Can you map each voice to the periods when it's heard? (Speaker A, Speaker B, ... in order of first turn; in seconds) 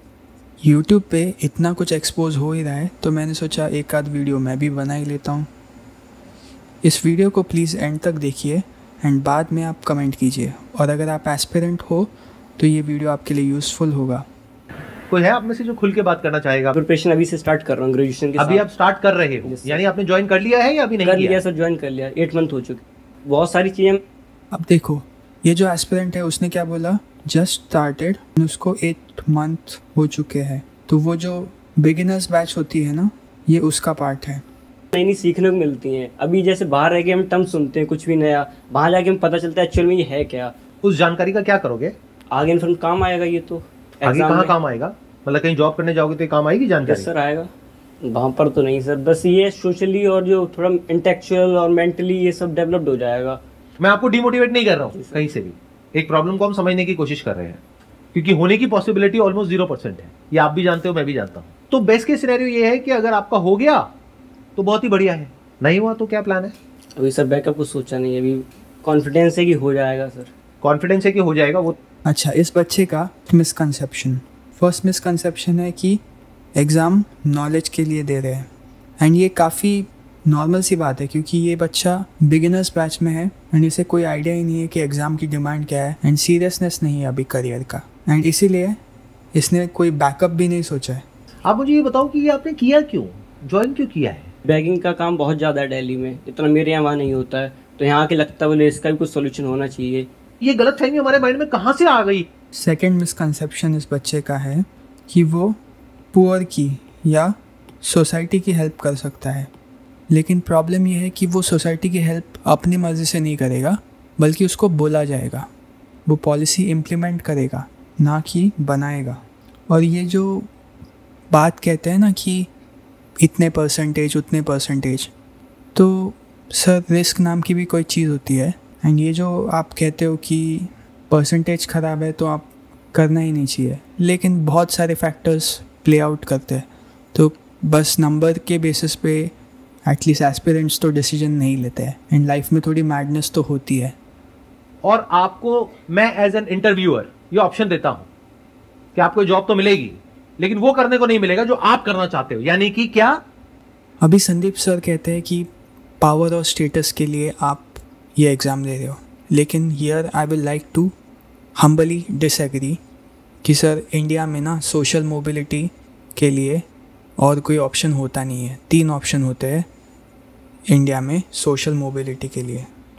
Speaker A: 0.6-5.5, 6.8-14.2, 24.5-34.4, 72.0-76.0, 76.6-78.5, 79.0-88.8, 89.3-91.0, 102.5-105.6, 106.1-109.5, 110.1-115.5, 116.1-120.5, 121.3-122.5, 123.2-125.1, 125.7-139.3, 139.9-143.9, 154.0-155.5, 156.0-160.9, 161.6-162.8, 163.4-166.6, 167.2-169.7, 170.7-172.7
Speaker B: 15.1-16.8, 18.4-21.4, 40.8-41.9, 44.0-47.1, 53.8-57.6, 58.1-63.9, 64.5-66.5, 70.6-71.8, 91.5-94.3, 100.4-102.3, 144.8-148.1, 148.9-153.2
Speaker C: 16.7-18.7, 19.4-19.8, 21.0-24.0, 34.9-40.5, 42.3-44.5, 46.8-47.5, 48.0-53.4, 54.9-55.3, 67.0-70.3, 94.5-100.1